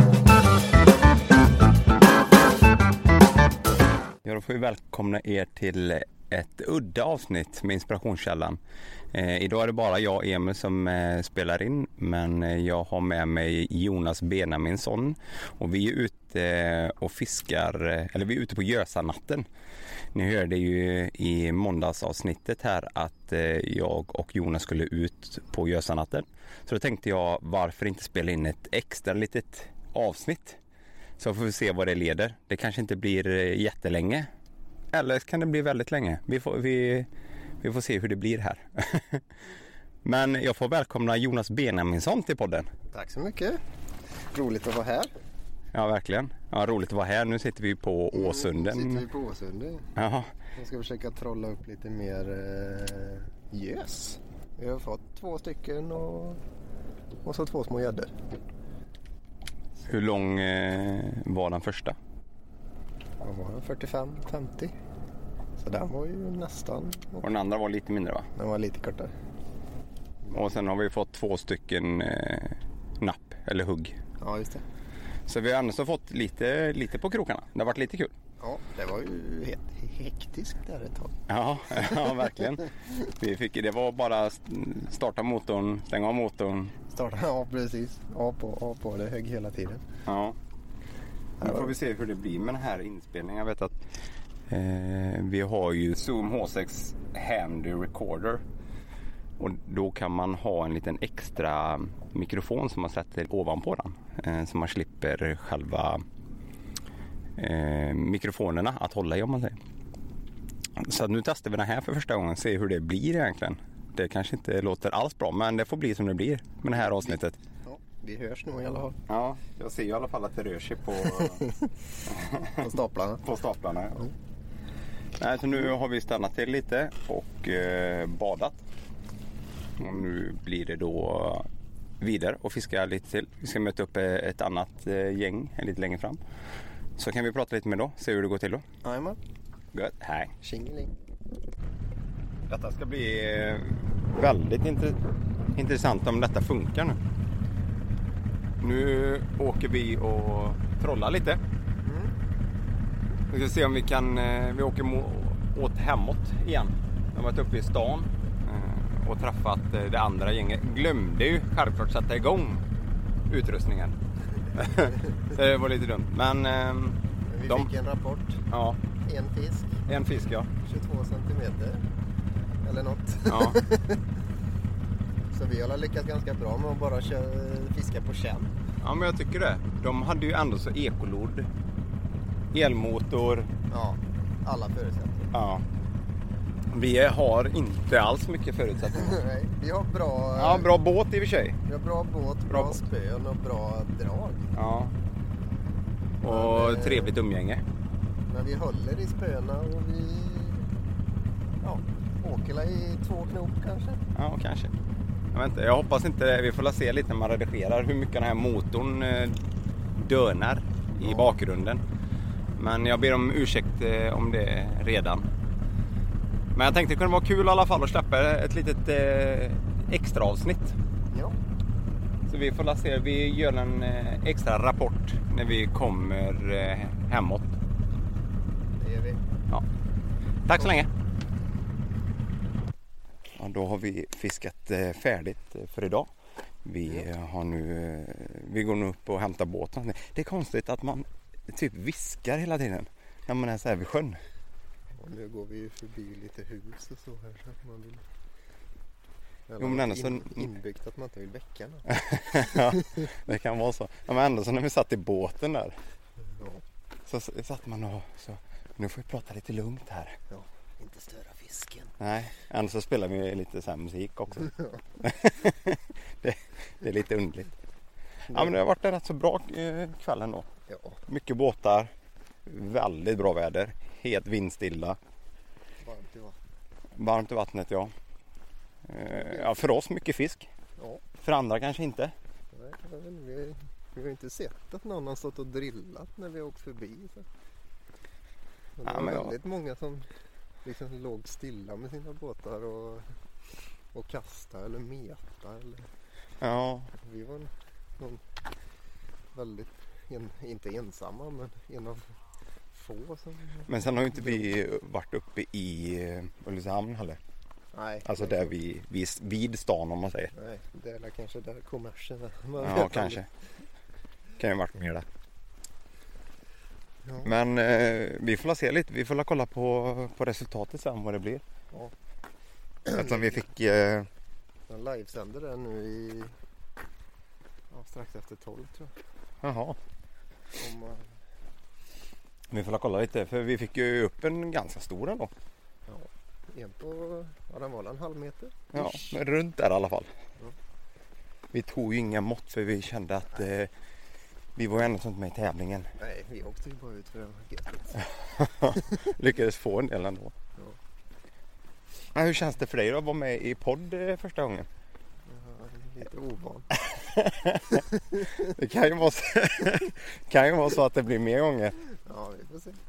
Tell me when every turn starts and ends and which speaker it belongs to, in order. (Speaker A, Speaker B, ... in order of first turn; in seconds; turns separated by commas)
Speaker A: 4.2-8.6, Speaker A: 9.1-19.4, Speaker A: 20.1-30.6, Speaker A: 31.2-34.3, Speaker A: 34.9-37.1, Speaker A: 37.6-39.2, Speaker A: 40.0-42.7, Speaker B: 42.9-43.6, Speaker B: 44.3-45.1, Speaker A: 45.7-49.0, Speaker B: 48.1-49.9, Speaker A: 50.0-50.3, Speaker B: 50.5-56.4, Speaker B: 57.2-58.1, Speaker A: 59.8-62.0, Speaker B: 63.2-64.7, Speaker B: 65.6-67.2, Speaker A: 67.2-68.3, Speaker B: 68.3-69.1, Speaker A: 70.3-74.0, Speaker B: 74.2-74.6, Speaker A: 75.3-78.1, Speaker B: 78.4-81.2, Speaker A: 81.3-86.7, Speaker B: 81.8-82.1, Speaker B: 86.9-89.8, Speaker A: 90.0-90.4, Speaker A: 91.4-93.8, Speaker A: 94.5-98.4, Speaker A: 99.4-106.0, Speaker A: 107.4-109.6, Speaker A: 110.8-117.3, Speaker B: 116.7-119.0, Speaker A: 119.1-121.5, Speaker B: 121.2-121.7, Speaker A: 122.0-124.0, Speaker B: 122.3-123.2, Speaker A: 125.2-128.6, Speaker A: 129.8-131.4, Speaker A: 132.0-136.2, Speaker A: 137.0-138.6, Speaker B: 138.8-139.2, Speaker A: 139.7-140.3, Speaker B: 140.4-140.9, Speaker A: 142.5-145.0, Speaker A: 145.5-147.0, Speaker A: 148.6-151.4, Speaker B: 151.8-152.1, Speaker A: 153.3-162.6, Speaker A: 163.3-163.9, Speaker A: 164.5-167.7, Speaker B: 167.3-168.4, Speaker A: 168.5-168.8, Speaker B: 169.0-169.8, Speaker A: 169.9-170.5, Speaker B: 170.6-171.8, Speaker B: 172.6-174.0, Speaker A: 173.3-173.6, Speaker B: 175.3-178.5, Speaker A: 178.8-181.5, Speaker A: 182.5-183.5, Speaker B: 183.7-185.3, Speaker A: 185.3-185.6, Speaker A: 186.7-189.2, Speaker B: 188.9-190.7, Speaker A: 190.3-191.6, Speaker B: 191.7-194.6, Speaker A: 192.5-192.8, Speaker A: 194.5-194.9, Speaker A: 196.2-197.6, Speaker B: 196.2-197.1, Speaker B: 198.3-200.7, Speaker B: 201.6-204.0, Speaker A: 204.1-204.7, Speaker A: 205.3-209.4, Speaker A: 209.9-211.8, Speaker B: 211.0-211.3, Speaker A: 212.6-215.3, Speaker A: 216.5-220.8, Speaker B: 221.1-221.4, Speaker A: 222.3-227.5, Speaker B: 228.8-229.2, Speaker A: 230.4-230.9, Speaker A: 233.4-236.1, Speaker A: 236.6-244.2, Speaker B: 244.9-248.0, Speaker B: 249.5-252.8, Speaker A: 249.6-250.5, Speaker A: 251.9-255.8, Speaker B: 256.4-256.6, Speaker A: 257.1-260.1, Speaker B: 260.3-261.9, Speaker A: 262.0-267.5, Speaker B: 264.5-264.8, Speaker A: 268.3-270.5, Speaker B: 268.3-268.6, Speaker B: 270.7-271.0, Speaker A: 271.1-271.9, Speaker A: 272.4-275.0, Speaker B: 275.8-276.4, Speaker A: 276.9-277.9, Speaker A: 278.9-280.5, Speaker B: 279.1-279.5, Speaker B: 280.8-281.0, Speaker A: 281.2-282.1, Speaker B: 282.5-287.2, Speaker B: 288.8-290.0, Speaker A: 288.8-289.3, Speaker B: 290.6-293.1, Speaker B: 293.9-295.9, Speaker A: 296.4-296.9, Speaker B: 296.9-298.2, Speaker B: 299.3-302.1, Speaker B: 302.7-304.4, Speaker A: 303.7-307.2, Speaker B: 307.7-308.5, Speaker A: 308.0-310.3, Speaker B: 310.3-313.2, Speaker A: 312.6-313.3, Speaker A: 314.4-315.1, Speaker B: 317.0-317.3, Speaker A: 317.2-321.4, Speaker B: 322.9-323.3, Speaker A: 322.9-324.1, Speaker B: 324.7-326.3, Speaker B: 327.7-328.9, Speaker A: 329.4-329.8, Speaker B: 330.6-331.1, Speaker A: 332.5-335.3, Speaker B: 335.9-338.9, Speaker A: 338.7-340.1, Speaker A: 341.5-343.7, Speaker A: 344.6-345.9, Speaker B: 346.0-348.1, Speaker A: 348.3-350.3, Speaker A: 352.1-354.7, Speaker B: 355.3-356.7, Speaker A: 356.9-361.8, Speaker B: 362.0-362.8